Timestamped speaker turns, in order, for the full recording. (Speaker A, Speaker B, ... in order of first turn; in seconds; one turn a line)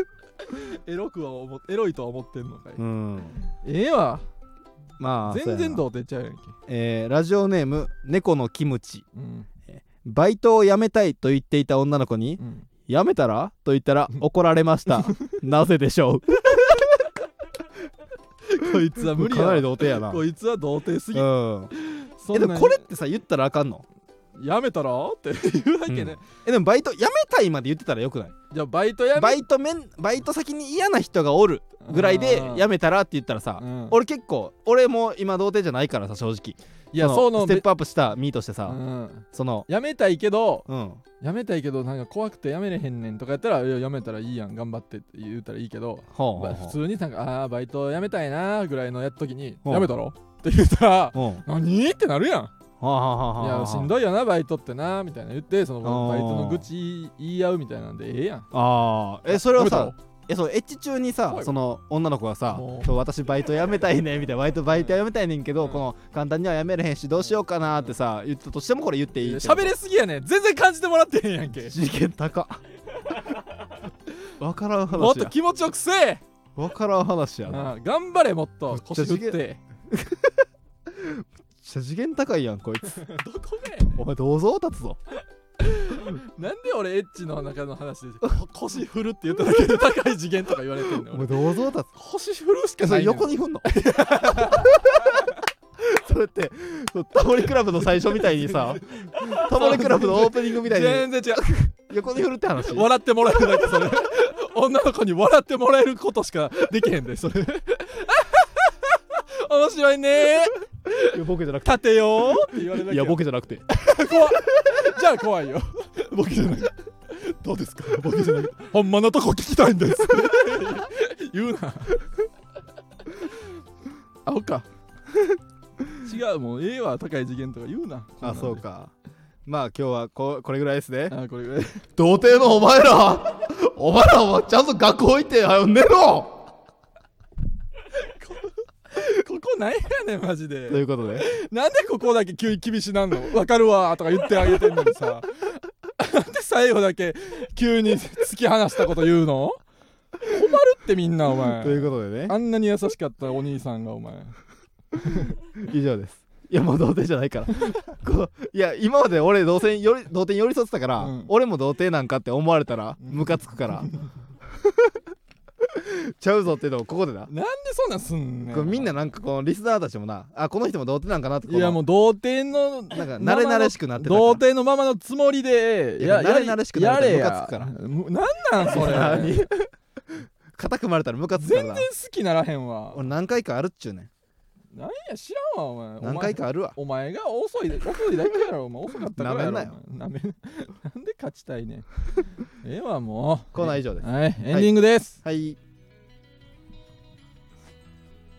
Speaker A: 0.4-2.8
Speaker B: 2.8-3.4
Speaker A: 3.5-4.2
Speaker B: 5.0-5.8
Speaker A: 5.3-6.6
Speaker B: 6.7-9.0
Speaker A: 9.1-9.5
Speaker B: 9.7-16.9
Speaker A: 12.4-12.7
Speaker A: 18.4-22.8
Speaker B: 18.9-20.2
Speaker B: 21.1-21.7
Speaker B: 22.3-23.8
Speaker A: 24.4-26.2
Speaker B: 25.9-28.3
Speaker A: 28.5-29.5
Speaker B: 29.1-38.8
Speaker A: 31.8-32.7
Speaker A: 33.6-34.0
Speaker A: 36.9-37.7
Speaker A: 38.6-40.6
Speaker B: 39.3-39.7
Speaker B: 40.7-41.0
Speaker A: 41.2-52.5
Speaker B: 46.1-46.8
Speaker B: 51.1-51.4
Speaker B: 52.8-53.9
Speaker A: 53.4-58.5
Speaker B: 55.8-56.6
Speaker B: 58.5-69.7
Speaker A: 59.3-59.9
Speaker A: 62.5-62.9
Speaker A: 67.3-67.9
Speaker A: 69.2-71.7
Speaker B: 71.6-72.6
Speaker B: 74.4-75.3
Speaker A: 74.9-76.2
Speaker B: 76.5-77.7
Speaker A: 77.5-79.6
Speaker B: 78.7-79.4
Speaker B: 79.9-80.3
Speaker B: 80.9-83.0
Speaker A: 82.9-84.0
Speaker B: 84.0-85.0
Speaker A: 85.6-91.3
Speaker B: 91.1-91.9
Speaker A: 91.9-95.3
Speaker B: 92.8-93.7
Speaker B: 94.3-101.1
Speaker A: 98.3-101.7
Speaker B: 101.9-102.9
Speaker A: 102.6-122.0
Speaker B: 111.0-113.6
Speaker A: 124.2-124.7
Speaker A: 126.0-128.6
Speaker B: 128.2-128.9
Speaker B: 129.5-131.2
Speaker A: 131.1-131.8
Speaker B: 132.0-136.4
Speaker A: 138.0-149.6
Speaker B: 140.7-141.3
Speaker A: 150.2-154.4
Speaker B: 151.5-152.3
Speaker A: 154.9-155.3
Speaker B: 155.6-163.9
Speaker A: 161.0-161.3
Speaker A: 163.0-164.1
Speaker B: 164.6-165.0
Speaker B: 165.7-167.3
Speaker A: 167.3-168.9
Speaker B: 168.5-171.8
Speaker A: 171.5-179.4
Speaker B: 172.9-174.4
Speaker B: 176.0-177.7
Speaker B: 178.7-179.7
Speaker B: 180.5-181.9
Speaker A: 181.4-183.0
Speaker B: 182.9-184.1
Speaker A: 184.7-191.8
Speaker B: 186.0-186.7
Speaker B: 189.1-189.7
Speaker A: 192.6-195.2
Speaker B: 193.5-195.6